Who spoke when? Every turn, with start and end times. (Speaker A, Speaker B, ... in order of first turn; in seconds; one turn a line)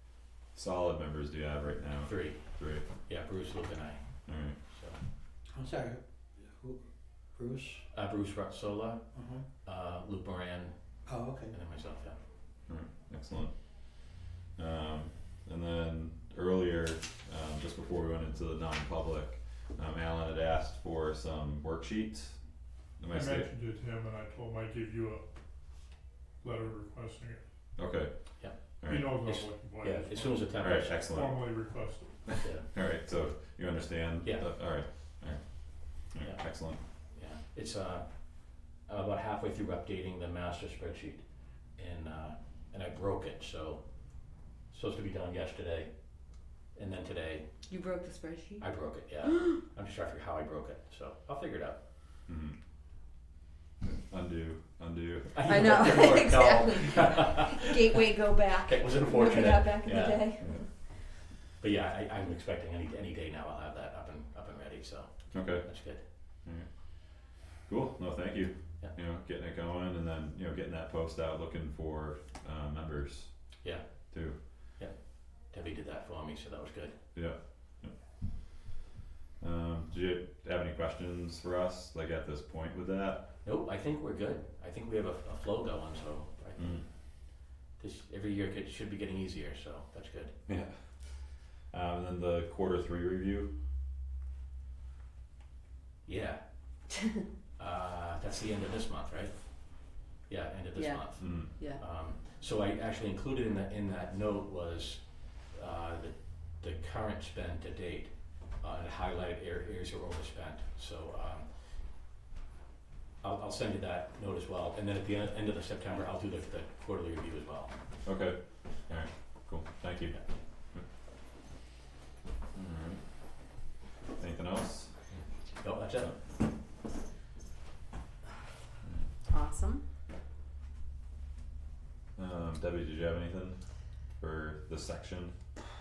Speaker A: 0.5-2.9
Speaker B: 2.0-2.4
Speaker B: 3.1-4.1
Speaker A: 4.3-4.6
Speaker B: 4.7-5.0
Speaker C: 5.5-6.8
Speaker C: 7.3-7.8
Speaker B: 7.9-9.1
Speaker C: 9.2-9.4
Speaker B: 9.6-10.8
Speaker C: 11.1-11.6
Speaker B: 11.4-12.2
Speaker A: 12.7-13.6
Speaker A: 14.6-22.4
Speaker A: 23.0-23.5
Speaker D: 23.1-25.3
Speaker D: 26.4-27.4
Speaker A: 27.8-29.2
Speaker D: 28.8-32.4
Speaker B: 29.2-31.0
Speaker A: 30.6-31.5
Speaker B: 32.4-32.7
Speaker A: 32.7-36.8
Speaker B: 37.1-41.2
Speaker B: 41.8-43.8
Speaker B: 44.7-45.9
Speaker B: 46.7-47.5
Speaker E: 47.7-48.7
Speaker B: 48.6-51.8
Speaker A: 52.3-52.6
Speaker A: 54.0-56.0
Speaker B: 55.3-60.4
Speaker E: 55.4-60.6
Speaker B: 61.6-66.0
Speaker A: 65.3-65.7
Speaker A: 67.7-73.3
Speaker A: 74.1-74.4
Speaker B: 75.5-77.0
Speaker A: 77.2-77.9
Speaker A: 79.4-83.3
Speaker B: 83.4-86.8
Speaker A: 86.6-86.8
Speaker B: 87.8-90.3
Speaker A: 90.5-90.7
Speaker A: 91.7-93.5
Speaker B: 96.0-96.4
Speaker B: 97.6-99.4
Speaker B: 100.3-105.0
Speaker E: 100.8-101.8
Speaker A: 101.2-101.5
Speaker B: 105.5-111.5
Speaker B: 113.2-117.7
Speaker A: 118.0-120.2
Speaker A: 122.5-123.0
Speaker A: 124.2-124.9
Speaker B: 125.6-126.1
Speaker E: 129.3-129.8
Speaker A: 132.2-133.6
Speaker A: 134.2-135.4